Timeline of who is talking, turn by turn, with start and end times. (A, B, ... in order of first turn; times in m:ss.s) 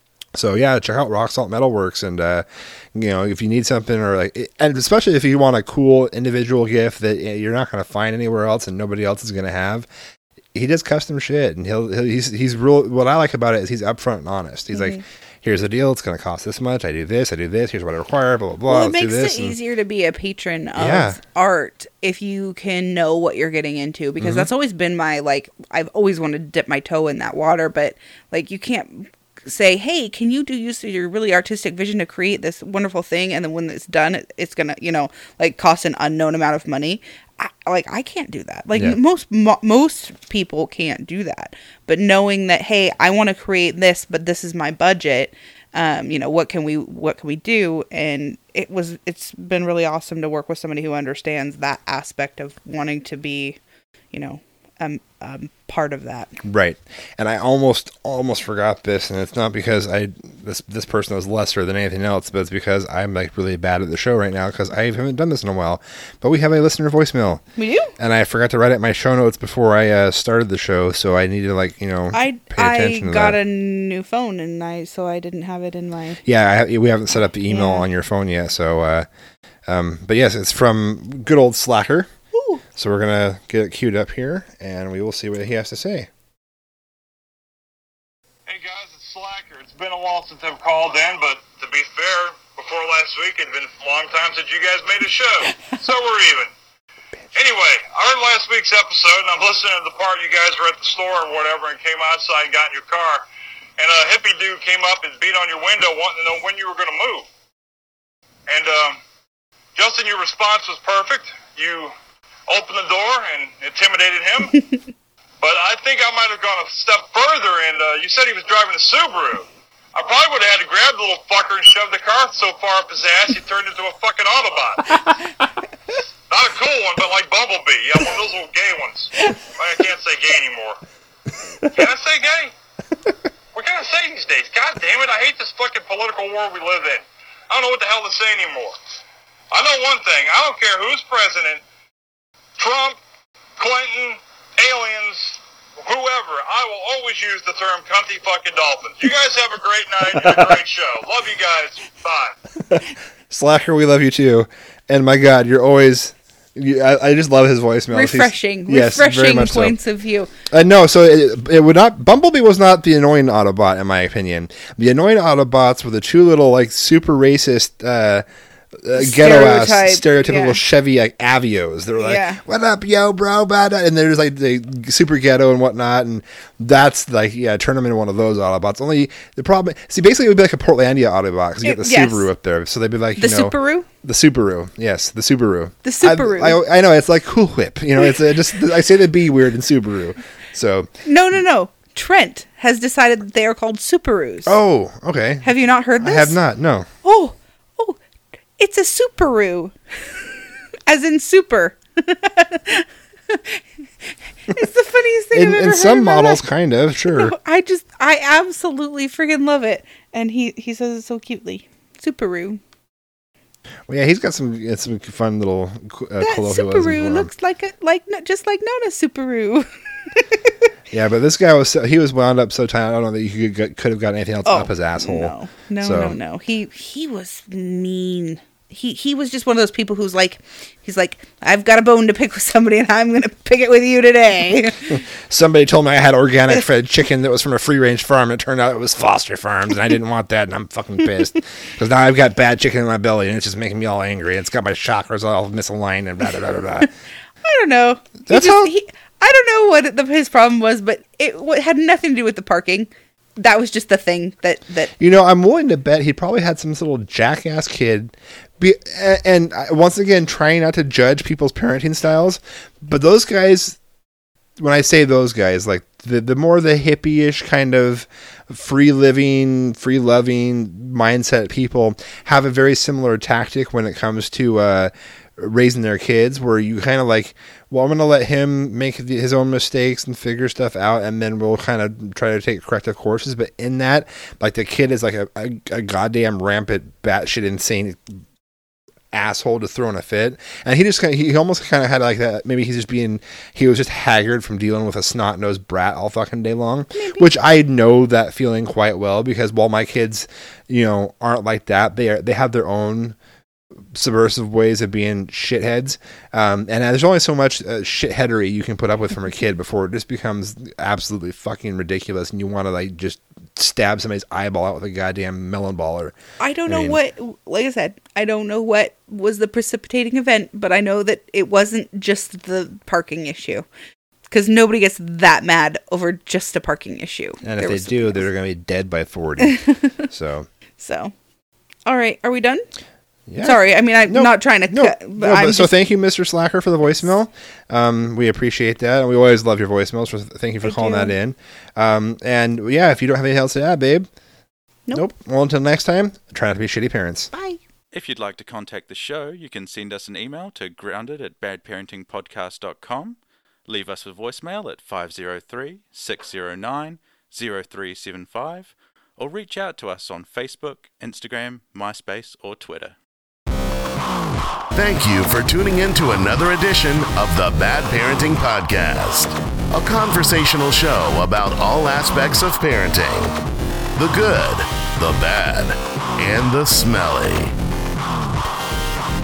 0:00.4-0:09.9 A
0:10.5-0:19.6 A
0:14.7-0:15.0 B
0:18.7-0:53.6 B
0:20.8-0:21.2 A
0:24.2-0:24.5 A
0:54.1-0:56.4 B
0:56.4-1:13.4 A
1:07.6-1:07.9 B
1:12.1-1:16.2 B
1:16.2-1:19.1 A
1:17.5-1:17.9 B
1:19.7-1:22.1 A
1:22.3-1:22.6 B
1:22.8-1:26.1 A
1:28.5-1:36.5 C
1:37.4-1:43.3 C
1:43.8-1:47.3 C
1:48.5-1:49.0 C
1:49.8-1:51.9 C
1:52.5-1:54.6 C
1:55.4-2:05.0 C
2:06.3-2:10.8 C
2:11.7-2:12.5 C
2:13.5-2:18.8 C
2:19.5-2:21.6 C
2:22.6-2:23.0 C
2:23.6-2:32.4 C
2:32.7-2:39.8 A
2:37.9-2:40.3 B
2:40.5-2:48.3 A
2:48.8-3:10.9 A
2:49.0-2:50.6 B
2:52.0-2:52.4 B
3:01.6-3:02.3 B
3:03.2-3:03.9 B
3:05.8-3:06.6 B
3:11.0-3:14.5 B
3:14.5-3:16.9 A
3:15.4-3:16.4 B
3:17.0-3:18.0 B
3:18.6-3:20.2 B
3:20.9-3:23.6 B
3:24.5-3:26.4 B
3:25.3-3:27.4 A
3:27.0-3:32.6 B
3:33.9-3:37.3 A
3:36.2-3:40.5 B
3:40.9-3:46.2 A
3:44.5-3:55.0 B
3:54.9-4:06.9 A
4:07.4-4:14.9 B
4:08.3-4:08.7 A
4:15.0-4:23.8 A
4:24.6-4:48.2 A
4:49.1-5:03.2 A
4:56.9-4:57.3 B
5:03.9-5:17.0 A
5:16.4-5:23.7 B
5:24.3-5:28.2 B
5:27.4-5:30.5 A
5:29.4-5:29.9 B
5:30.8-5:31.1 B
5:31.9-5:32.6 B
5:33.3-5:44.1 A
5:33.4-5:35.7 B
5:40.6-5:41.1 B
5:44.9-5:47.3 A
5:47.3-5:47.6 B
5:47.9-6:03.0 D
6:04.7-6:13.3 E
6:14.0-6:17.5 E